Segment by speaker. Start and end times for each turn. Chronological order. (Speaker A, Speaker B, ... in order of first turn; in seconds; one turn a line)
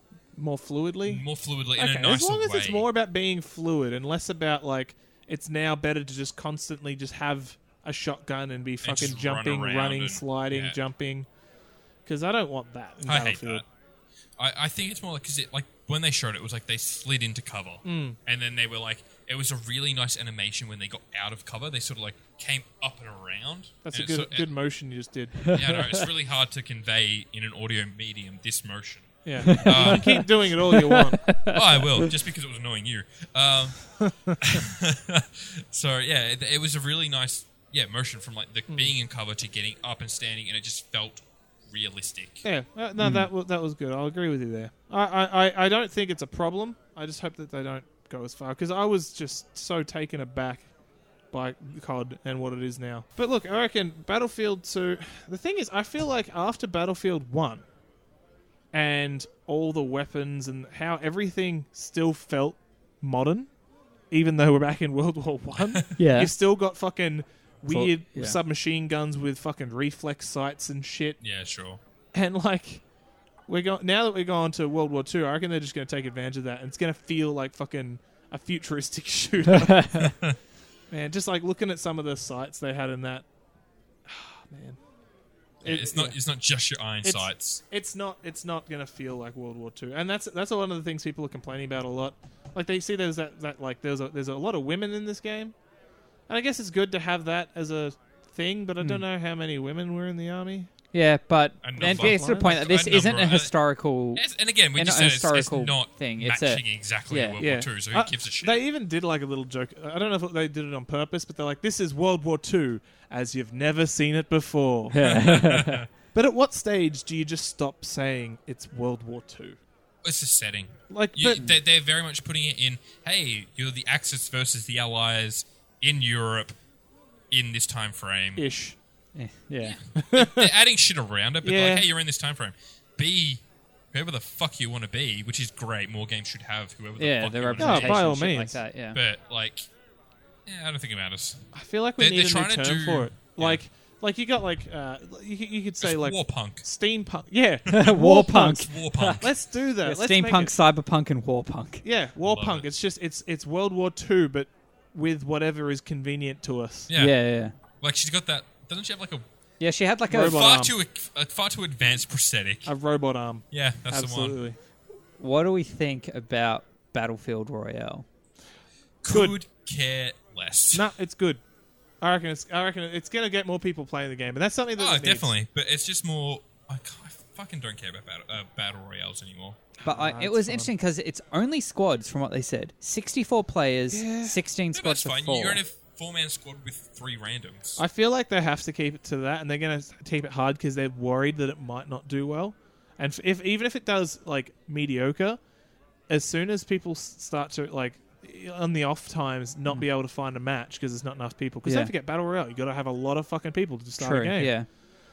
Speaker A: 0.3-1.2
Speaker B: 1.1-2.9
Speaker A: 1.8-11.3
Speaker B: 8.8-10.8
Speaker A: 12.1-13.6
Speaker B: 13.0-13.6
Speaker B: 14.4-24.5
Speaker A: 17.8-18.2
Speaker A: 23.8-25.6
Speaker C: 25.4-26.0
Speaker B: 25.5-30.4
Speaker A: 29.2-31.3
Speaker C: 29.4-32.1
Speaker B: 31.4-42.4
Speaker A: 34.0-34.4
Speaker A: 42.4-50.7
Speaker C: 43.0-43.3
Speaker A: 51.3-57.6
Speaker A: 58.7-63.5
Speaker A: 64.1-71.2
Speaker B: 65.5-65.8
Speaker C: 66.0-66.3
Speaker C: 67.7-68.4
Speaker B: 71.2-71.8
Speaker A: 72.1-72.8
Speaker A: 73.5-80.3
Speaker B: 80.0-80.4
Speaker A: 80.9-83.2
Speaker A: 84.0-84.8
Speaker A: 85.6-86.2
Speaker B: 85.6-87.6
Speaker A: 87.0-95.5
Speaker A: 96.3-100.7
Speaker C: 100.9-107.4
Speaker B: 101.6-103.5
Speaker A: 101.8-102.5
Speaker B: 104.1-108.6
Speaker A: 107.4-115.2
Speaker C: 114.9-115.8
Speaker B: 114.9-115.9
Speaker A: 116.1-119.6
Speaker B: 120.0-126.5
Speaker A: 120.9-121.4
Speaker B: 127.3-128.4
Speaker A: 128.4-128.8
Speaker C: 129.1-129.8
Speaker B: 129.6-138.0
Speaker A: 130.0-130.5
Speaker A: 131.4-131.9
Speaker C: 137.0-139.0
Speaker A: 137.6-138.6
Speaker B: 138.9-139.7
Speaker B: 140.4-143.6
Speaker A: 141.5-150.5
Speaker B: 145.8-146.6
Speaker C: 147.7-149.3
Speaker B: 147.7-149.3
Speaker C: 149.8-151.8
Speaker A: 151.8-156.9
Speaker B: 152.2-152.7
Speaker B: 156.9-159.2
Speaker C: 156.9-157.5
Speaker C: 159.6-160.4
Speaker A: 160.1-160.7
Speaker B: 160.2-162.7
Speaker A: 162.7-164.6
Speaker B: 163.5-164.4
Speaker C: 165.2-168.1
Speaker B: 169.0-170.9
Speaker A: 169.1-169.3
Speaker A: 170.7-171.4
Speaker A: 172.0-175.3
Speaker B: 174.8-179.6
Speaker A: 179.8-180.7
Speaker C: 179.8-185.6
Speaker A: 183.9-184.4
Speaker B: 184.7-187.8
Speaker A: 187.8-195.4
Speaker A: 196.1-204.7
Speaker C: 201.6-201.9
Speaker C: 204.0-204.7